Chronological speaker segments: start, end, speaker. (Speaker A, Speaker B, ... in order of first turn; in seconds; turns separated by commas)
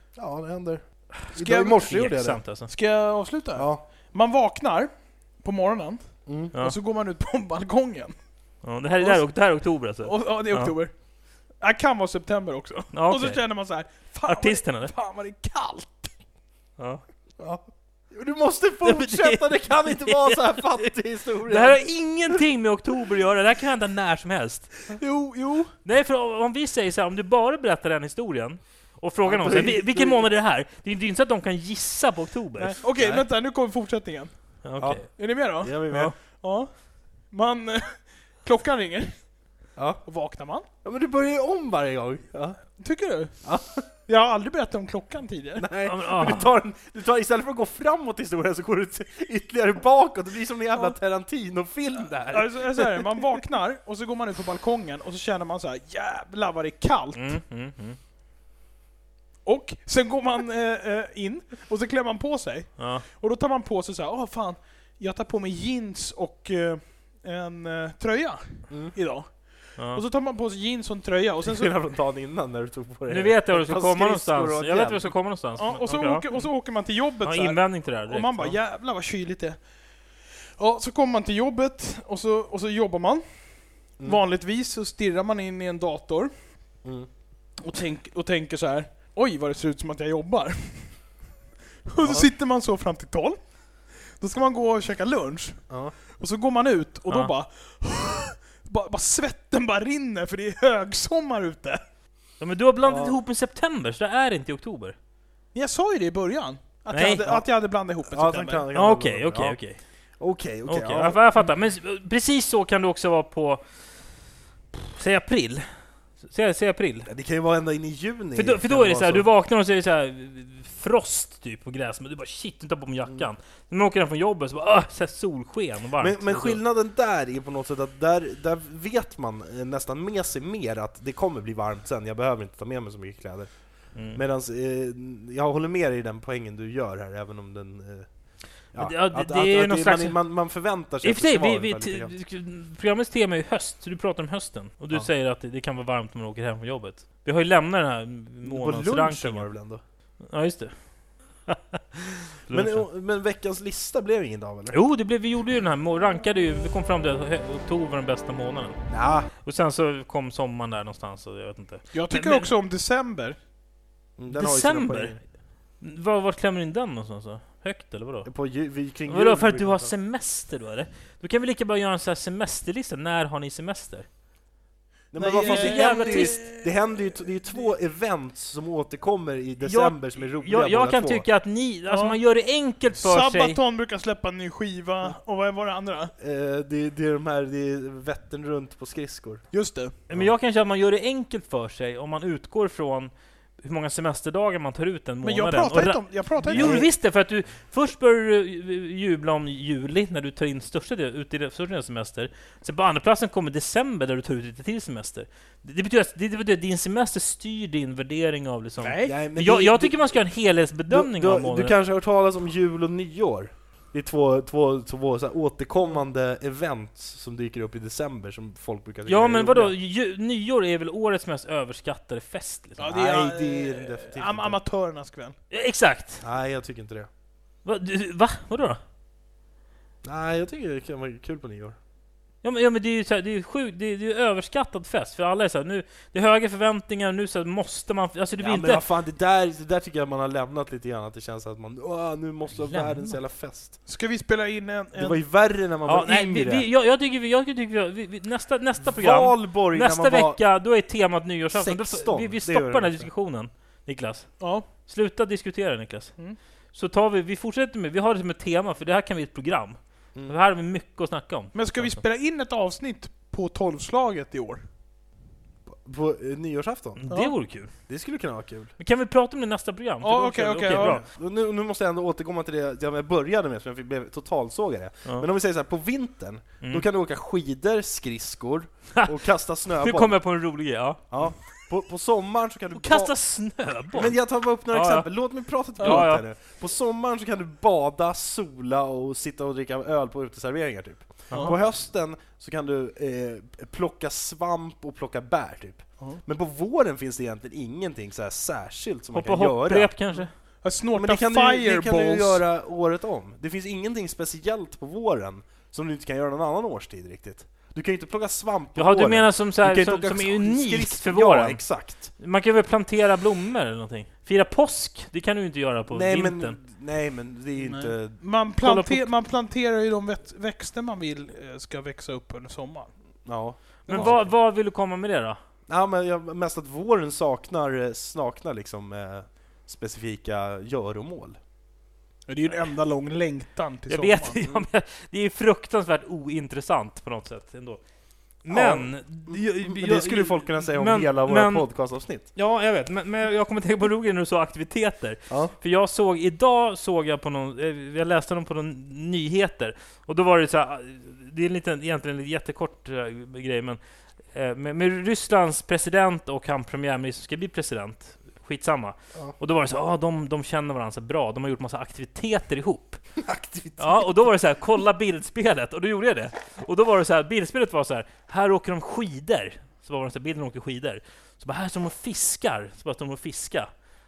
Speaker A: 0.2-2.4, Speaker B: 1.3-2.0, Speaker C: 1.8-2.7, Speaker B: 2.7-8.2, Speaker A: 3.5-3.8, Speaker A: 6.3-6.5, Speaker C: 8.6-10.7, Speaker B: 10.0-10.9, Speaker B: 11.6-16.1, Speaker C: 12.9-13.4, Speaker C: 14.3-14.9, Speaker C: 16.8-17.0, Speaker A: 17.4-21.8, Speaker C: 18.8-20.9, Speaker C: 21.4-24.9, Speaker B: 24.9-25.7, Speaker C: 25.9-33.2, Speaker A: 29.2-30.2, Speaker B: 32.6-34.3, Speaker C: 34.6-35.2, Speaker A: 34.8-35.0, Speaker B: 35.2-39.3, Speaker A: 35.6-36.1, Speaker C: 35.9-36.1, Speaker A: 39.8-40.0, Speaker B: 40.0-40.7, Speaker A: 40.8-42.6, Speaker B: 42.8-43.4, Speaker A: 43.4-43.9, Speaker B: 44.1-45.7, Speaker A: 45.6-53.3, Speaker C: 45.9-46.5, Speaker B: 52.3-57.4, Speaker C: 57.1-58.0, Speaker B: 59.5-71.7, Speaker C: 62.8-63.0, Speaker C: 69.8-70.0, Speaker A: 71.5-75.2, Speaker C: 73.1-76.5, Speaker B: 75.6-79.6, Speaker C: 77.2-78.6, Speaker B: 80.5-86.3, Speaker A: 86.8-87.1, Speaker B: 87.6-91.1, Speaker B: 91.9-101.8, Speaker A: 92.0-92.3, Speaker C: 102.4-105.0, Speaker A: 102.8-103.2, Speaker B: 105.5-108.7, Speaker C: 106.9-107.2, Speaker A: 108.1-109.6, Speaker C: 108.7-109.8, Speaker A: 110.2-111.2, Speaker C: 110.7-113.6, Speaker C: 114.8-115.7, Speaker C: 116.2-117.1, Speaker A: 117.1-119.3, Speaker C: 118.4-126.6, Speaker A: 126.0-138.1, Speaker C: 133.9-134.2, Speaker A: 138.7-142.2, Speaker C: 138.8-140.2, Speaker C: 141.0-149.5, Speaker A: 148.4-149.8, Speaker C: 150.2-150.7, Speaker C: 151.5-152.9, Speaker A: 152.5-154.8, Speaker C: 154.7-158.8, Speaker A: 158.9-159.3, Speaker C: 159.4-162.5, Speaker B: 161.9-163.4, Speaker A: 164.2-165.2, Speaker C: 164.3-165.3, Speaker C: 165.8-168.3, Speaker A: 168.2-169.9, Speaker C: 169.1-174.1, Speaker A: 175.1-181.3, Speaker B: 175.2-176.9, Speaker C: 175.4-176.4, Speaker C: 179.6-183.6, Speaker B: 181.9-182.2, Speaker B: 182.9-186.1, Speaker A: 186.2-189.4, Speaker B: 189.5-189.9, Speaker C: 190.1-193.1, Speaker C: 193.6-211.8, Speaker B: 195.2-196.8, Speaker A: 196.5-196.9, Speaker B: 208.8-209.1, Speaker A: 209.0-210.1, Speaker A: 210.9-219.7, Speaker C: 219.1-222.9, Speaker B: 222.8-225.4, Speaker A: 222.9-224.6, Speaker C: 225.5-226.2, Speaker A: 226.2-227.1, Speaker C: 227.7-228.8, Speaker A: 230.0-231.8, Speaker C: 232.4-238.8, Speaker A: 238.4-243.8, Speaker C: 242.5-243.2, Speaker B: 243.9-245.2, Speaker A: 244.9-246.7, Speaker C: 245.9-256.1, Speaker A: 248.9-250.4, Speaker A: 251.5-253.1, Speaker B: 254.4-254.7, Speaker C: 256.7-262.0, Speaker B: 261.5-264.6, Speaker A: 265.7-267.0, Speaker C: 267.0-267.7, Speaker A: 267.9-268.7, Speaker C: 268.8-271.0, Speaker B: 270.0-271.0, Speaker A: 270.7-280.2, Speaker C: 279.8-281.4, Speaker A: 281.1-283.1, Speaker C: 282.7-284.2, Speaker A: 283.9-299.9, Speaker C: 284.7-285.1, Speaker B: 285.8-286.1, Speaker C: 285.8-286.2, Speaker C: 291.3-291.6, Speaker C: 299.1-300.3, Speaker B: 300.2-302.4, Speaker A: 300.9-312.1, Speaker C: 308.8-316.6, Speaker A: 315.9-318.2, Speaker B: 317.6-322.9, Speaker C: 318.6-319.1, Speaker A: 323.2-324.3, Speaker B: 323.9-324.2, Speaker C: 323.9-325.4, Speaker A: 325.7-331.4, Speaker B: 332.3-334.4, Speaker C: 333.9-337.8, Speaker C: 338.4-341.7, Speaker A: 338.5-342.3, Speaker C: 342.3-353.8, Speaker A: 345.3-345.5, Speaker C: 354.3-363.0, Speaker A: 363.2-364.1, Speaker C: 363.8-373.7